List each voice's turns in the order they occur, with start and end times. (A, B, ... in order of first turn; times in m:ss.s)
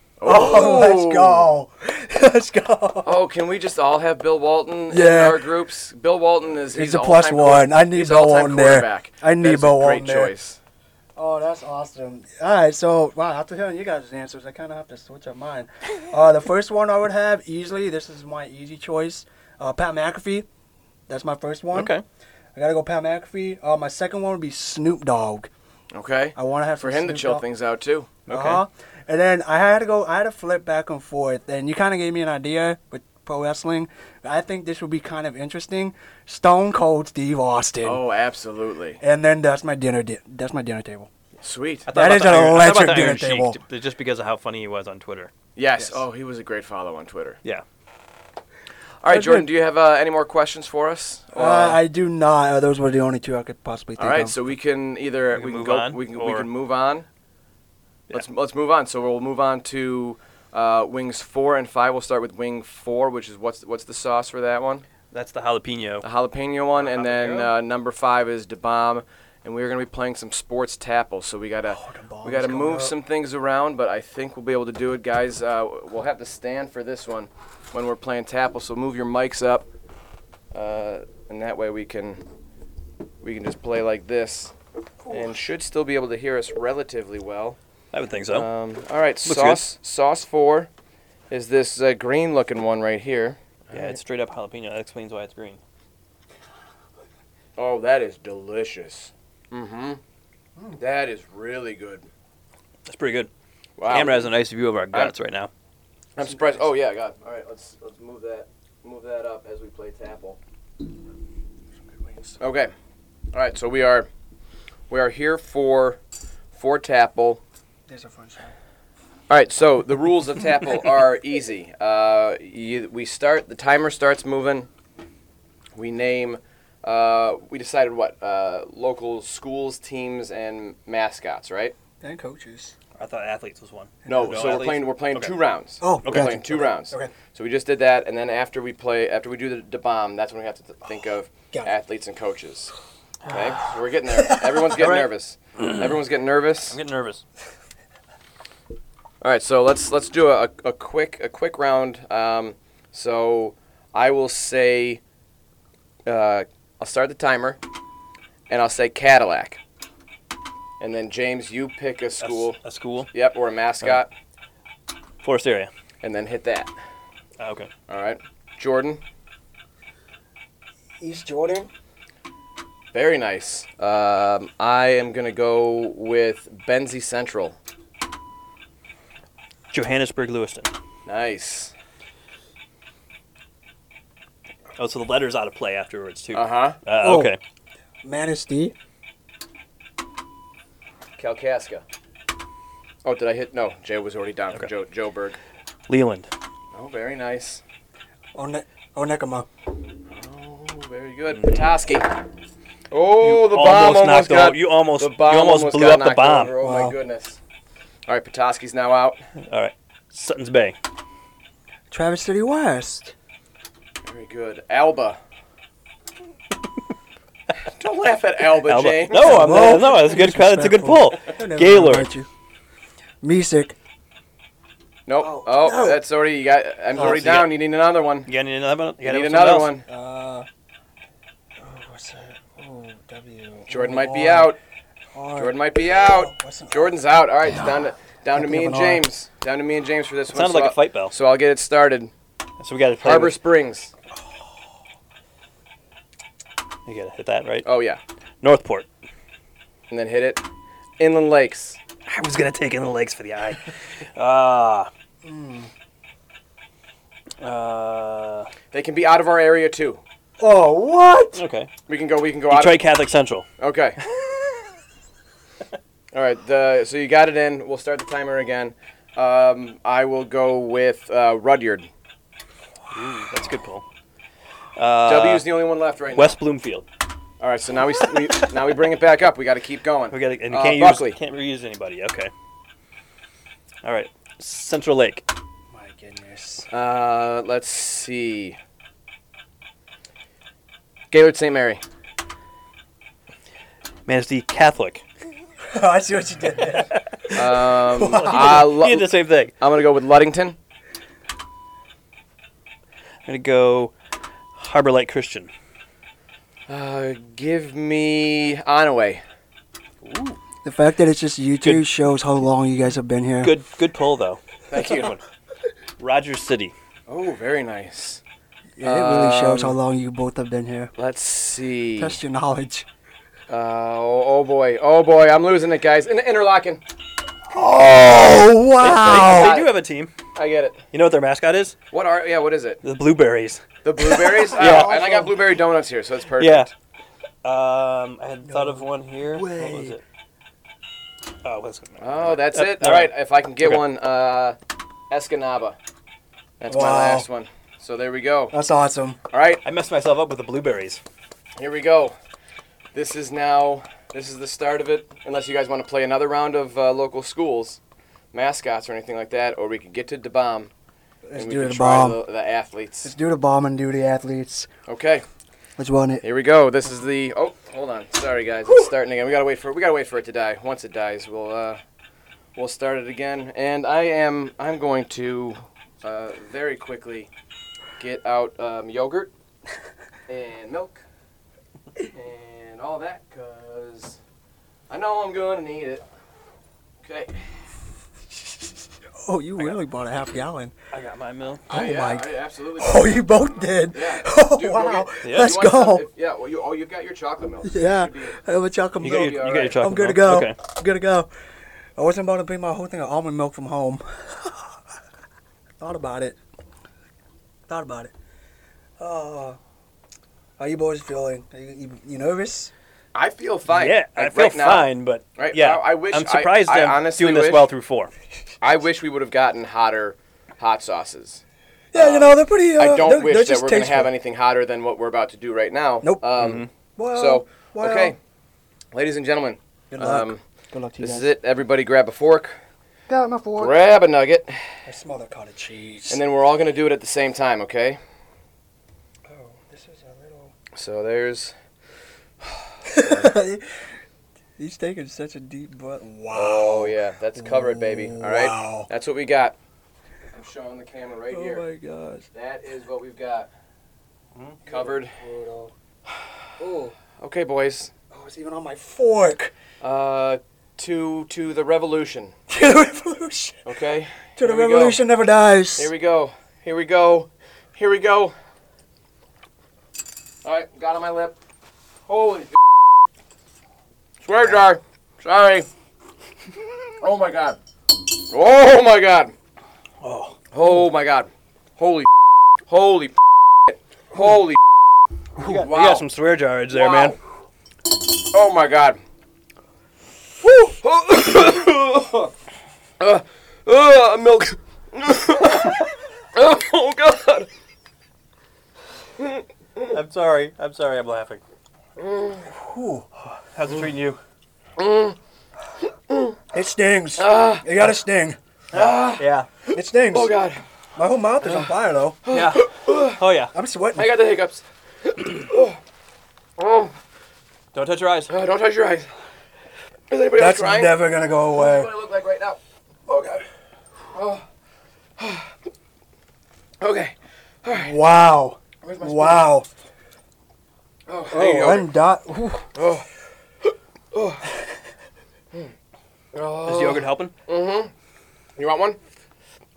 0:00.2-0:01.5 A
0:00.2-0:03.2 B
0:03.0-0:10.6 A
0:04.9-0:05.4 B
0:06.7-0:10.3 B
0:11.2-0:20.4 B
0:21.1-0:21.9 B
0:21.7-0:22.0 C
0:22.5-0:25.5 B
0:25.9-0:28.2 A
0:26.4-0:27.4 B
0:28.3-0:28.6 C
0:28.3-0:38.0 B
0:37.8-0:39.0 A
0:39.0-0:41.1 B
0:41.4-0:41.9 A
0:41.9-0:45.3 C
0:41.9-0:43.6 B
0:45.6-0:47.4 A
0:49.0-0:51.8 A
0:49.1-0:49.5 B
0:51.3-0:54.4 B
0:54.0-0:57.0 A
0:55.3-0:56.5 C
0:58.1-1:04.8 A
1:05.1-1:06.0 C
1:06.0-1:19.7 A
1:06.8-1:07.5 C
1:11.7-1:12.9 B
1:20.5-1:22.2 A
1:23.2-1:24.5 A
1:25.0-1:25.3 B
1:25.1-1:27.6 A
1:27.9-1:28.5 C
1:28.3-1:30.7 A
1:29.2-1:29.6 C
1:31.3-1:33.4 A
1:33.7-1:35.6 C
1:37.6-1:40.0 A
1:40.8-1:42.1 A
1:42.8-1:43.3 C
1:43.8-1:44.3 A
1:43.9-1:45.5 C
1:46.2-1:50.4 A
1:51.9-1:52.4 B
1:52.4-1:52.7 A
1:53.3-1:54.1 A
1:54.9-1:56.0 A
1:56.5-1:57.4 A
1:57.9-1:58.5 B
1:59.3-2:04.7 A
2:05.7-2:11.7 A
2:12.0-2:12.7 B
2:13.0-2:15.3 C
2:14.0-2:14.6 B
2:14.0-2:22.7 A
2:15.8-2:17.1 B
2:16.0-2:16.3 C
2:23.3-2:26.8 A
2:24.2-2:24.7 B
2:24.8-2:25.1 C
2:26.7-2:27.2 C
2:29.2-2:35.0 A
2:36.0-2:37.6 A
2:38.5-2:39.6 A
2:40.8-2:42.6 A
2:42.2-2:43.1 C
2:43.1-2:44.1 A
2:45.2-2:45.7 C
2:46.0-2:46.7 A
2:47.4-2:47.7 C
2:47.9-2:49.0 A
2:51.0-2:51.7 B
2:52.9-2:57.6 A
2:59.7-3:00.7 C
3:01.0-3:01.7 A
3:04.8-3:07.4 C
3:06.3-3:06.8 A
3:07.0-3:07.3 B
3:08.0-3:08.7 B
3:11.2-3:11.8 A
3:13.0-3:15.4 A
3:15.9-3:16.3 C
3:16.7-3:17.6 A
3:18.3-3:19.5 B
3:20.1-3:22.1 A
3:21.4-3:21.6 C
3:22.9-3:27.4 A
3:23.2-3:26.5 C
3:26.6-3:27.0 B
3:28.1-3:29.2 A
3:29.5-3:30.7 C
3:31.9-3:33.1 B
3:34.0-3:35.2 A
3:37.6-3:39.6 A
3:38.6-3:42.1 C
3:39.1-3:42.3 B
3:43.2-3:43.7 B
3:45.0-3:48.3 A
3:45.2-3:46.0 B
3:47.0-3:47.6 C
3:47.0-3:47.2 B
3:48.3-3:49.7 C
3:49.0-3:49.8 A
3:49.9-3:50.5 B
3:51.6-3:54.5 B
3:53.7-3:54.6 A
3:55.1-3:56.9 B
3:55.4-4:02.1 A
3:57.5-3:57.8 B
3:58.3-3:59.0 B
4:00.3-4:01.1 C
4:02.6-4:03.4 C
4:03.0-4:03.9 A
4:06.8-4:07.6 C
4:07.6-4:08.0 A
4:08.4-4:08.9 C
4:09.9-4:10.4 A
4:11.0-4:11.8 A
4:12.0-4:14.9 C
4:15.2-4:15.7 B
4:17.4-4:18.5 C
4:18.7-4:20.0 A
4:20.4-4:21.4 B
4:21.4-4:21.7 C
4:21.9-4:22.8 A
4:22.5-4:23.5 C
4:23.6-4:24.0 A
4:26.1-4:31.9 A
4:32.9-4:33.8 C
4:34.8-4:35.5 C
4:35.0-4:36.4 A
4:36.1-4:36.8 C
4:37.4-4:41.2 A
4:38.1-4:38.5 C
4:40.1-4:42.3 C
4:43.8-4:45.2 C
4:45.7-4:46.7 B
4:46.7-4:48.6 A
4:51.1-4:51.8 A
4:54.1-4:55.0 C
4:55.7-4:57.0 B
4:56.7-4:59.5 C
4:57.3-4:59.1 A
4:57.8-4:58.7 B
4:59.6-5:00.6 A
5:03.2-5:03.9 C
5:04.6-5:05.5 C
5:06.7-5:09.2 A
5:10.0-5:10.4 C
5:10.6-5:13.5 B
5:13.4-5:15.2 C
5:14.7-5:15.1 A
5:16.0-5:16.7 C
5:17.1-5:18.2 A
5:18.8-5:20.9 B
5:18.8-5:19.8 A
5:21.0-5:22.2 A
5:22.0-5:22.8 B
5:23.5-5:26.8 A
5:27.5-5:29.6 B
5:28.8-5:30.1 C
5:29.0-5:29.7 A
5:30.3-5:30.8 A
5:30.9-5:31.8 C
5:31.9-5:32.8 A
5:32.8-5:33.6 C
5:33.8-5:36.7 A
5:34.2-5:35.3 B
5:34.6-5:35.1 C
5:36.4-5:36.7 C
5:37.4-5:40.0 C
5:38.4-5:40.0 B
5:41.4-5:43.8 C
5:42.0-5:44.6 A
5:45.1-5:45.8 A
5:46.6-5:48.5 A
5:46.7-5:47.3 B
5:48.5-5:49.2 B
5:49.3-5:49.6 A
5:49.6-5:51.0 C
5:51.6-5:52.1 A
5:52.9-5:57.8 A
5:58.3-6:00.7 A
6:01.2-6:02.2 B
6:01.4-6:03.1 A
6:03.0-6:04.7 B
6:04.9-6:05.2 A
6:05.8-6:06.2 B
6:06.2-6:11.8 A
6:12.6-6:17.3 A
6:18.0-6:19.3 A
6:20.3-6:21.0 A
6:22.0-6:24.2 A
6:24.9-6:26.0 A
6:27.0-6:27.4 A
6:29.2-6:30.7 B
6:30.9-6:31.7 C
6:31.7-6:36.0 B
6:31.7-6:38.4 A
6:35.2-6:35.6 C
6:37.6-6:41.3 B
6:39.0-6:39.8 A
6:39.0-6:40.6 C
6:42.0-6:44.8 B
6:45.8-6:46.4 B
6:47.7-6:48.1 B
6:49.0-6:49.6 B
6:50.6-6:52.7 B
6:53.1-6:57.6 A
6:53.7-6:58.1 C
6:58.6-7:01.4 A
7:01.9-7:04.1 B
7:01.9-7:08.2 A
7:06.0-7:06.4 B
7:06.4-7:06.7 C
7:07.0-7:08.1 B
7:08.9-7:10.4 A
7:09.9-7:11.3 B
7:11.0-7:12.6 A
7:13.1-7:13.8 B
7:13.6-7:14.7 A
7:14.8-7:16.2 B
7:16.1-7:18.0 A
7:19.3-7:20.5 B
7:20.7-7:21.5 A
7:22.8-7:23.8 B
7:22.9-7:23.3 A
7:24.6-7:28.9 B
7:26.3-7:29.6 A
7:30.3-7:31.6 A
7:31.3-7:32.2 B
7:32.3-7:33.5 A
7:34.6-7:35.1 A
7:34.6-7:35.7 B
7:36.6-7:36.9 B
7:37.2-7:37.9 A
7:38.1-7:39.5 B
7:39.8-7:42.3 A
7:42.5-7:43.6 B
7:43.6-7:45.0 A
7:44.4-7:45.9 B
7:45.8-7:48.3 A
7:50.4-7:51.4 A
7:52.1-7:52.6 A
7:54.2-7:55.7 A
7:57.0-7:57.6 A
7:58.2-7:59.3 A
8:00.0-8:00.4 C
8:00.5-8:02.1 A
8:02.7-8:03.2 A
8:03.7-8:04.6 A
8:05.4-8:07.2 C
8:05.4-8:06.0 A
8:06.7-8:07.2 A
8:08.2-8:09.0 A
8:10.4-8:12.3 A
8:13.0-8:17.5 A
8:19.2-8:19.9 A
8:19.9-8:21.4 C
8:22.0-8:22.5 A
8:22.5-8:23.0 B
8:23.5-8:24.2 C
8:24.8-8:25.2 A
8:26.1-8:26.4 A
8:26.5-8:28.4 B
8:27.2-8:27.7 A
8:28.7-8:30.6 A
8:28.7-8:29.5 C
8:29.7-8:30.3 B
8:30.9-8:32.2 B
8:32.2-8:33.2 A
8:32.3-8:33.5 C
8:33.5-8:34.1 B
8:34.0-8:35.8 A
8:36.6-8:36.9 A
8:37.7-8:38.3 C
8:38.3-8:39.1 A
8:40.1-8:43.4 A
8:40.3-8:41.9 B
8:44.1-8:44.4 A
8:45.2-8:45.5 A
8:46.8-8:48.0 A
8:47.7-8:49.7 B
8:48.8-8:49.5 A
8:51.1-8:51.9 A
8:51.3-8:52.7 B
8:52.7-8:53.0 A
8:54.1-8:54.4 A
8:56.3-8:57.9 A
8:56.6-8:57.3 C
8:58.6-8:59.0 A